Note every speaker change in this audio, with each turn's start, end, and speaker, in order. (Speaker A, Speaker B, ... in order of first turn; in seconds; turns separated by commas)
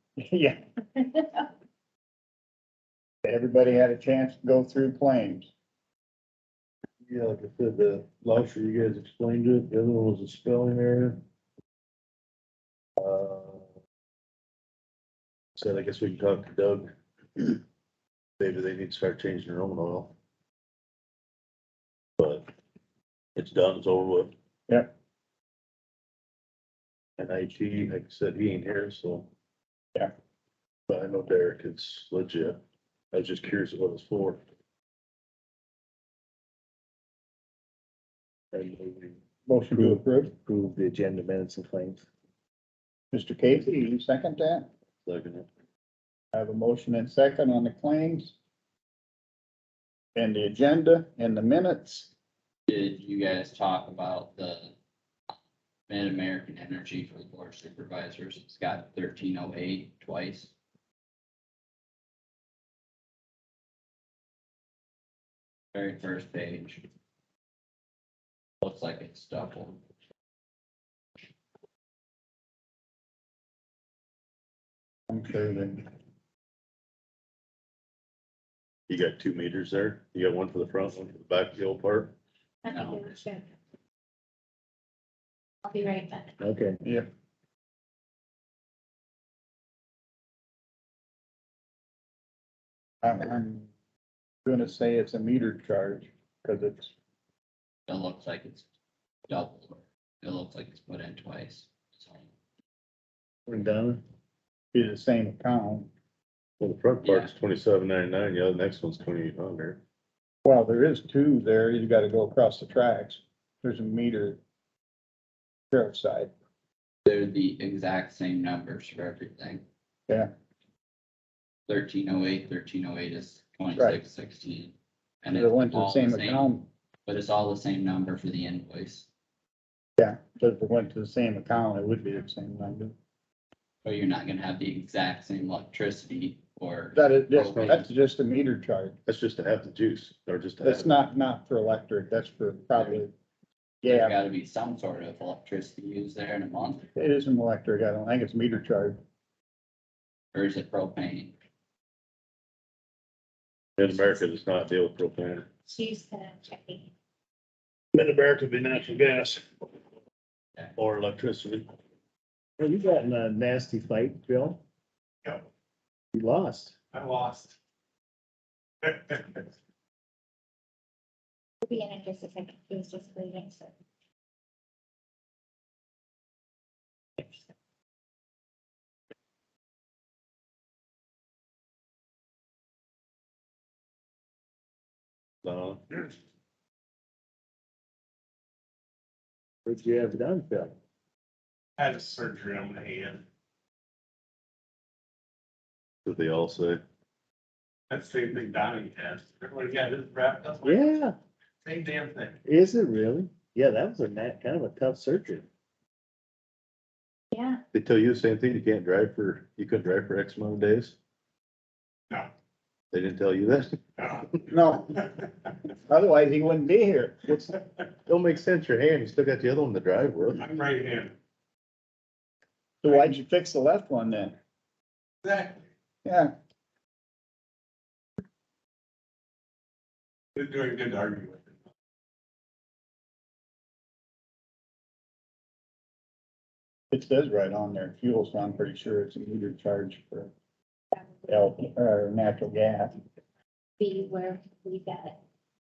Speaker A: 0.2-0.6, Speaker A: 3.2-5.5, Speaker B: 7.0-11.2, Speaker B: 13.0-13.7, Speaker B: 15.6-17.6, Speaker B: 18.4-20.1, Speaker B: 22.2-22.5, Speaker B: 23.4-24.3, Speaker B: 27.2-29.3, Speaker B: 30.9-32.6, Speaker B: 33.1-34.4, Speaker C: 38.5-39.2, Speaker A: 39.5-40.3, Speaker C: 39.7-42.1, Speaker A: 43.1-44.7, Speaker B: 45.0-45.5, Speaker A: 46.3-48.4, Speaker A: 50.2-52.1, Speaker D: 52.7-54.7, Speaker D: 55.9-60.5, Speaker D: 65.7-66.9, Speaker D: 68.6-69.8, Speaker A: 75.1-75.9, Speaker B: 78.9-82.2, Speaker E: 82.6-83.5, Speaker E: 85.7-86.3, Speaker C: 86.4-86.8, Speaker A: 93.0-93.7, Speaker A: 94.5-96.9, Speaker D: 97.9-98.7, Speaker D: 99.3-102.3, Speaker C: 103.5-104.0, Speaker A: 104.7-105.9, Speaker B: 106.6-109.8, Speaker D: 107.0-107.3, Speaker A: 110.5-114.4, Speaker A: 115.7-116.3, Speaker D: 117.0-119.6, Speaker D: 121.7-126.5, Speaker A: 125.3-126.7, Speaker D: 127.0-129.1, Speaker A: 130.0-132.9, Speaker D: 133.8-137.9, Speaker A: 136.9-139.0, Speaker B: 137.5-137.8, Speaker B: 139.1-141.0, Speaker A: 140.6-143.1, Speaker A: 143.8-144.2, Speaker D: 143.8-146.9, Speaker A: 147.0-149.0, Speaker D: 150.3-151.3, Speaker B: 153.8-155.5, Speaker E: 155.7-156.9, Speaker B: 157.9-159.4, Speaker B: 160.8-161.7, Speaker C: 162.6-164.6, Speaker C: 166.1-166.8, Speaker F: 166.9-167.6, Speaker F: 168.8-169.4, Speaker E: 171.6-173.7, Speaker B: 185.4-186.0, Speaker C: 189.7-190.8, Speaker F: 191.8-193.2, Speaker B: 196.1-196.8, Speaker F: 197.9-200.9, Speaker C: 200.7-201.2, Speaker F: 201.7-202.4, Speaker C: 202.4-205.5, Speaker E: 207.3-207.6, Speaker B: 207.7-211.0, Speaker B: 212.9-213.8, Speaker F: 214.0-214.4, Speaker A: 214.5-215.1, Speaker A: 215.7-217.5, Speaker B: 218.1-220.4, Speaker F: 220.3-221.2, Speaker A: 222.8-224.4, Speaker F: 225.2-225.6, Speaker A: 226.1-226.3, Speaker F: 230.4-231.5, Speaker A: 236.9-240.3, Speaker E: 240.9-241.5, Speaker A: 241.3-242.9, Speaker E: 243.8-245.2